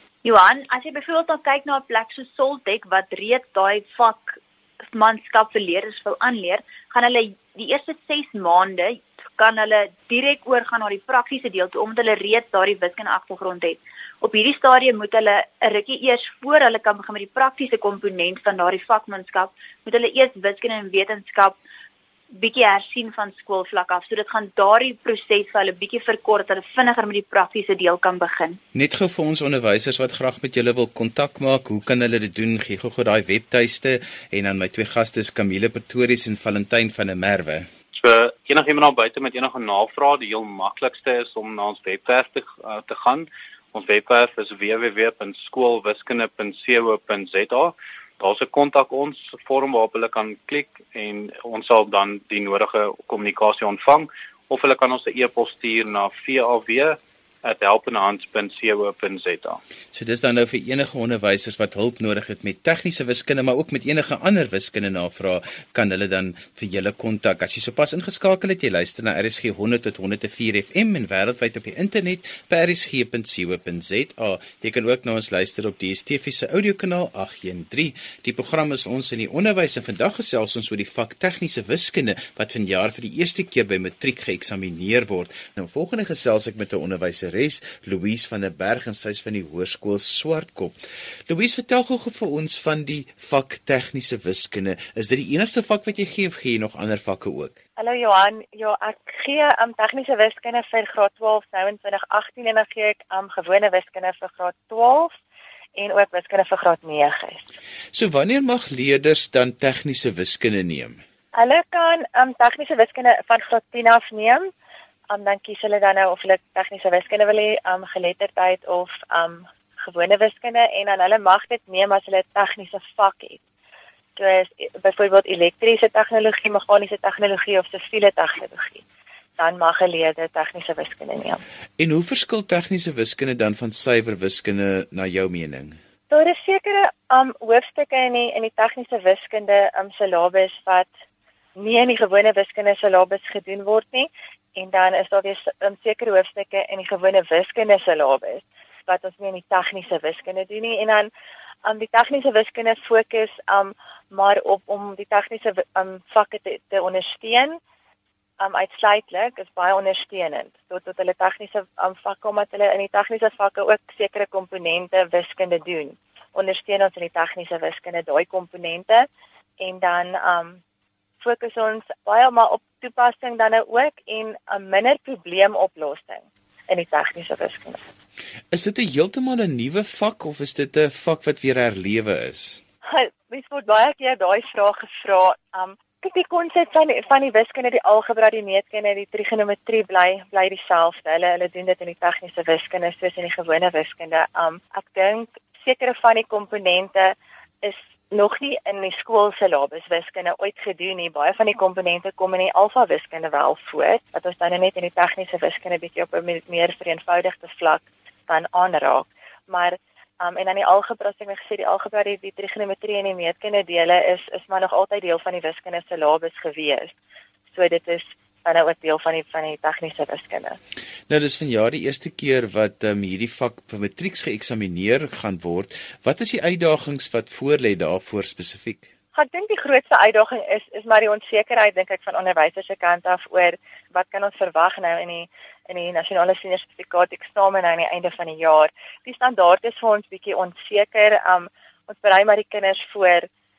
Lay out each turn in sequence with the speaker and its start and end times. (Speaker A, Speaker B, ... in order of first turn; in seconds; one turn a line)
Speaker A: 0.2-21.6
Speaker A: 22.3-28.6
Speaker B: 28.7-37.7
Speaker C: 37.9-59.6
Speaker B: 59.9-90.8
Speaker B: 91.3-97.5
Speaker D: 97.8-105.2
Speaker D: 105.8-107.4
Speaker B: 107.9-111.0
Speaker D: 111.3-114.5
Speaker D: 115.1-123.4
Speaker D: 124.2-128.8
Speaker D: 129.4-131.4
Speaker B: 131.8-135.8
Speaker D: 136.1-140.9
Speaker D: 141.6-151.1
Speaker D: 151.7-157.6
Speaker D: 158.4-169.1
Speaker D: 169.6-170.6
Speaker D: 171.2-177.8
Speaker B: 178.5-182.6
Speaker D: 182.9-216.9
Speaker D: 217.5-220.6
Speaker B: 221.1-228.8
Speaker D: 229.2-243.3